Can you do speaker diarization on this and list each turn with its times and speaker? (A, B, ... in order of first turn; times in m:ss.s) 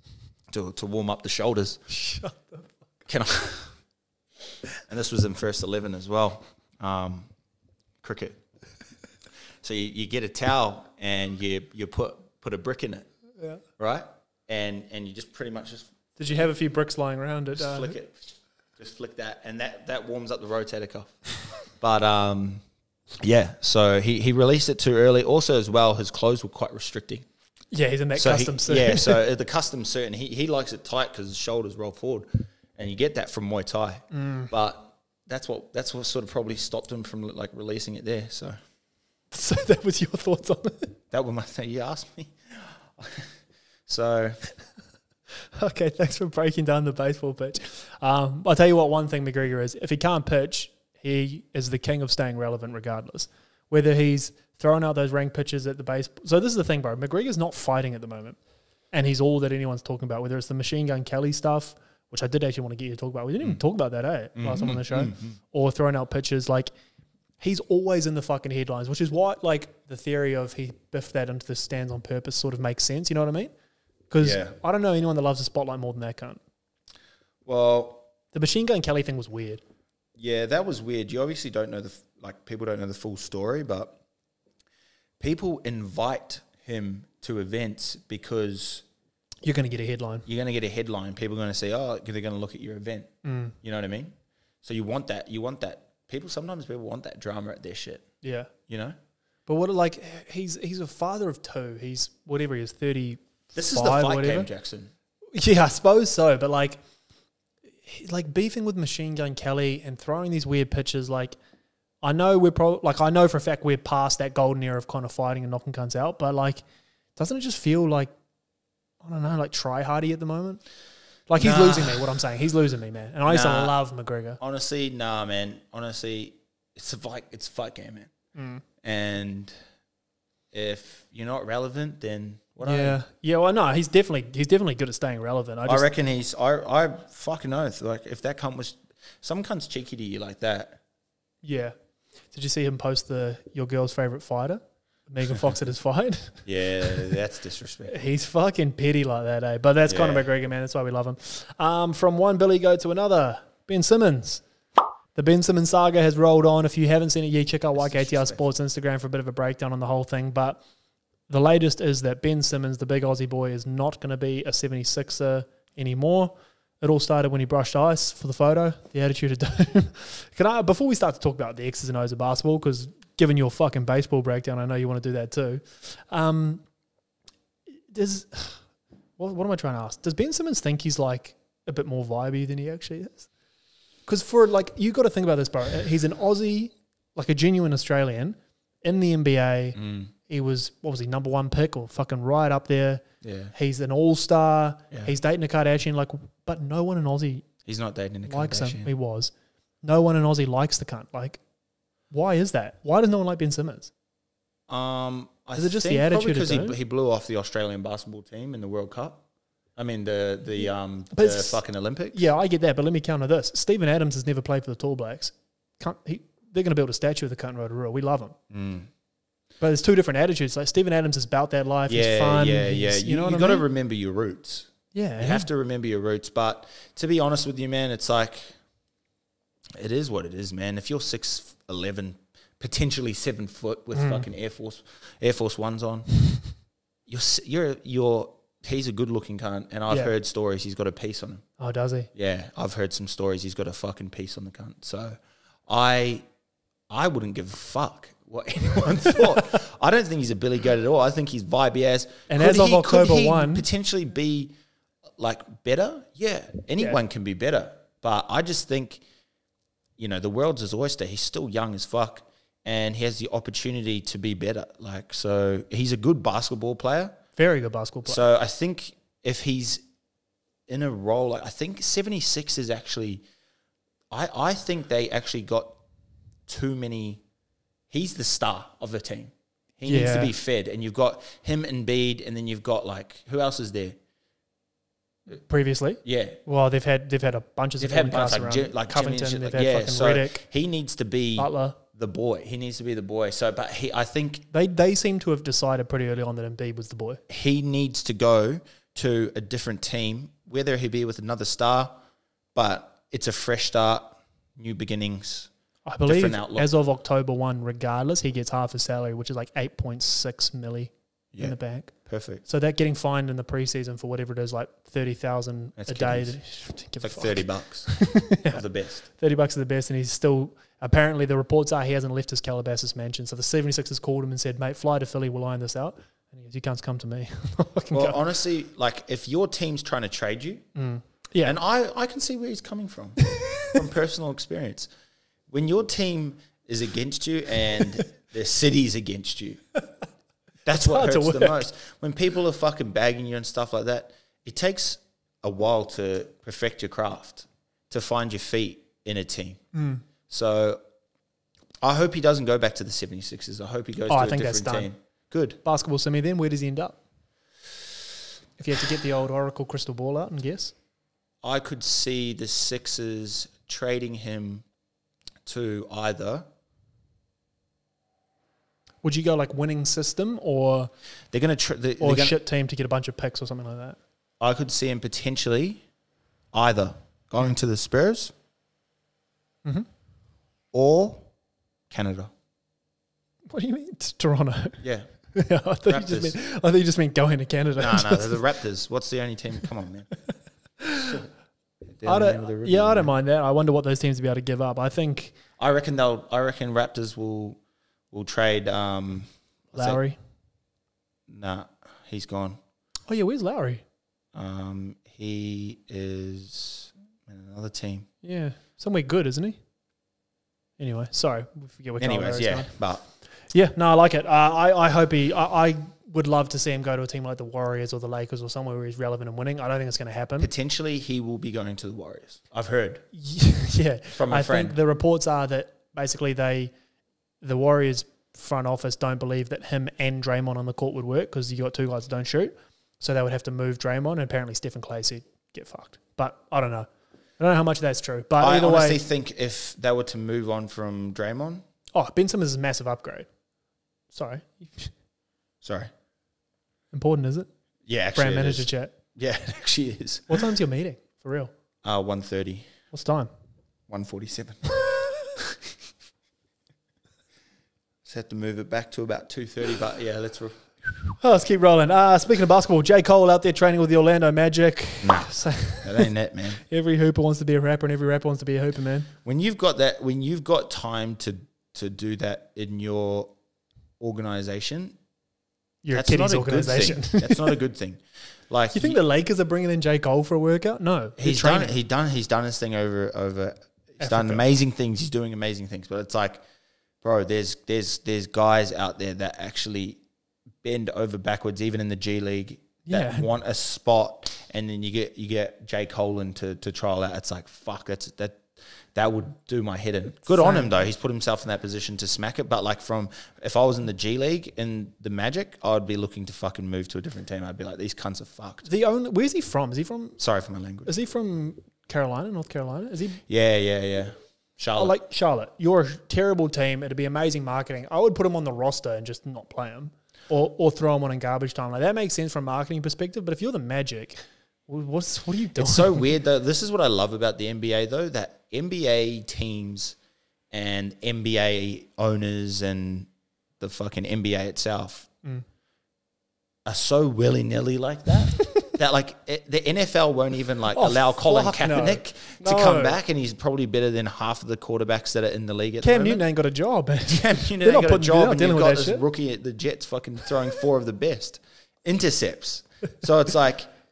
0:00.5-0:01.8 A
0:01.9-0:02.7 B
0:03.1-0:03.7 A
0:04.9-0:07.3 A
0:08.0-0:08.4 A
0:09.6-0:13.1 A
0:13.8-0:15.9 A
0:16.2-0:17.9 B
0:17.5-0:22.6 A
0:23.2-0:27.3 A
0:27.7-0:29.2 B
0:28.1-0:38.6 A
0:34.1-0:34.5 B
0:39.3-0:40.9 B
0:41.1-0:43.3 A
0:43.9-0:44.4 A
0:45.6-0:58.4 B
0:58.9-1:06.7 B
1:04.4-1:05.4 A
1:07.4-1:13.5 B
1:14.1-1:16.4 B
1:14.2-1:14.5 A
1:17.4-1:18.0 A
1:18.3-1:19.6 B
1:20.2-1:24.0 A
1:25.2-1:28.8 A
1:29.4-1:30.2 B
1:30.2-1:38.0 A
1:33.2-1:33.5 B
1:38.2-1:38.5 B
1:38.6-1:39.0 A
1:39.5-1:44.5 B
1:43.5-1:44.9 A
1:45.3-1:46.8 B
1:47.8-1:51.3 B
1:52.0-1:56.6 B
1:57.2-1:58.1 B
1:59.0-2:00.6 B
2:01.3-2:04.4 B
2:01.4-2:02.1 A
2:03.2-2:03.8 A
2:04.4-2:08.1 A
2:08.3-2:08.6 B
2:08.8-2:09.5 A
2:10.5-2:13.0 A
2:12.6-2:15.9 B
2:15.6-2:20.8 A
2:21.4-2:21.7 B
2:22.3-2:26.4 B
2:26.4-2:27.9 A
2:27.9-2:34.4 B
2:29.8-2:30.3 A
2:35.1-2:40.6 B
2:37.7-2:38.4 A
2:41.3-2:56.6 B
2:57.9-2:58.6 B
2:59.2-3:03.3 B
3:04.0-3:13.0 B
3:09.7-3:10.1 A
3:13.2-3:13.5 A
3:13.5-3:17.4 B
3:17.6-3:18.9 A
3:18.3-3:21.4 B
3:22.1-3:23.9 B
3:24.7-3:29.2 A
3:25.6-3:26.8 B
3:29.8-3:32.2 A
3:31.1-3:31.6 B
3:32.1-3:38.4 B
3:38.5-3:38.9 A
3:39.6-3:43.6 B
3:41.9-3:48.6 A
3:44.9-3:45.5 B
3:49.7-3:56.1 A
3:53.9-3:54.2 B
3:57.1-4:01.4 A
4:01.6-4:02.1 B
4:02.1-4:06.2 A
4:06.9-4:14.5 A
4:12.3-4:13.6 B
4:15.2-4:19.0 A
4:20.0-4:27.2 A
4:27.4-4:28.2 B
4:28.0-4:29.8 A
4:30.7-4:33.2 A
4:34.1-4:35.8 A
4:36.5-4:37.2 A
4:37.9-4:44.0 A
4:39.8-4:40.3 B
4:45.3-4:50.4 B
4:46.0-4:46.4 A
4:47.8-4:54.4 A
4:51.4-4:51.8 B
4:54.5-4:57.2 B
4:57.3-5:01.9 A
5:02.5-5:05.5 A
5:05.9-5:28.2 B
5:06.0-5:06.7 A
5:11.3-5:12.4 A
5:15.8-5:19.0 A
5:27.9-5:30.7 A
5:30.8-5:31.6 B
5:31.4-5:34.9 A
5:35.5-5:39.6 A
5:40.6-5:49.6 A
5:40.8-5:41.6 B
5:49.7-5:50.0 B
5:50.3-5:50.8 A
5:51.8-5:55.6 A
5:54.1-5:54.9 B
5:55.6-5:57.0 B
5:58.6-6:00.7 B
6:01.4-6:04.6 A
6:05.4-6:06.4 A
6:09.0-6:10.9 B
6:11.3-6:12.4 A
6:12.0-6:14.0 B
6:14.4-6:15.8 A
6:16.5-6:18.3 A
6:20.7-6:21.3 A
6:21.9-6:22.3 A
6:23.5-6:28.4 B
6:24.8-6:25.1 A
6:25.8-6:26.4 A
6:27.8-6:30.1 A
6:30.8-6:31.1 B
6:31.0-6:31.3 A
6:31.9-6:33.1 A
6:32.0-6:35.3 B
6:35.6-6:37.6 A
6:38.1-6:40.0 A
6:39.7-6:40.2 B
6:41.3-6:42.6 A
6:43.1-6:43.8 B
6:44.3-6:48.1 A
6:48.2-6:49.6 B
6:50.8-7:00.5 B
6:52.0-6:53.0 A
7:00.4-7:03.0 A
7:03.1-7:06.7 B
7:04.1-7:04.8 A
7:07.4-7:19.0 B
7:18.4-7:21.6 A
7:21.9-7:23.3 B
7:24.1-7:24.9 B
7:25.6-7:25.9 A
7:26.9-7:27.5 B
7:27.8-7:30.4 A
7:28.1-7:28.9 B
7:30.3-7:31.5 B
7:31.8-7:32.7 A
7:32.9-7:33.3 B
7:33.9-7:34.8 A
7:38.0-7:40.7 A
7:41.2-7:46.1 B
7:45.0-7:46.6 A
7:46.7-7:49.1 B
7:49.2-7:53.3 A
7:54.0-7:54.9 A
7:55.8-7:57.5 B
7:55.9-7:59.0 A
7:58.7-8:01.7 B
8:01.2-8:06.4 A
8:04.0-8:04.4 B
8:07.0-8:10.0 A
8:10.6-8:28.7 A
8:12.8-8:13.3 B
8:20.3-8:20.7 B
8:28.6-8:30.2 B
8:30.2-8:30.9 A
8:30.8-8:33.2 B
8:33.3-8:34.9 A
8:34.8-8:46.0 B
8:45.6-8:50.0 A
8:50.5-8:53.1 A
8:53.6-8:55.1 A
8:56.6-9:06.2 A
9:00.7-9:03.0 B
9:05.8-9:09.0 B
9:07.1-9:13.7 A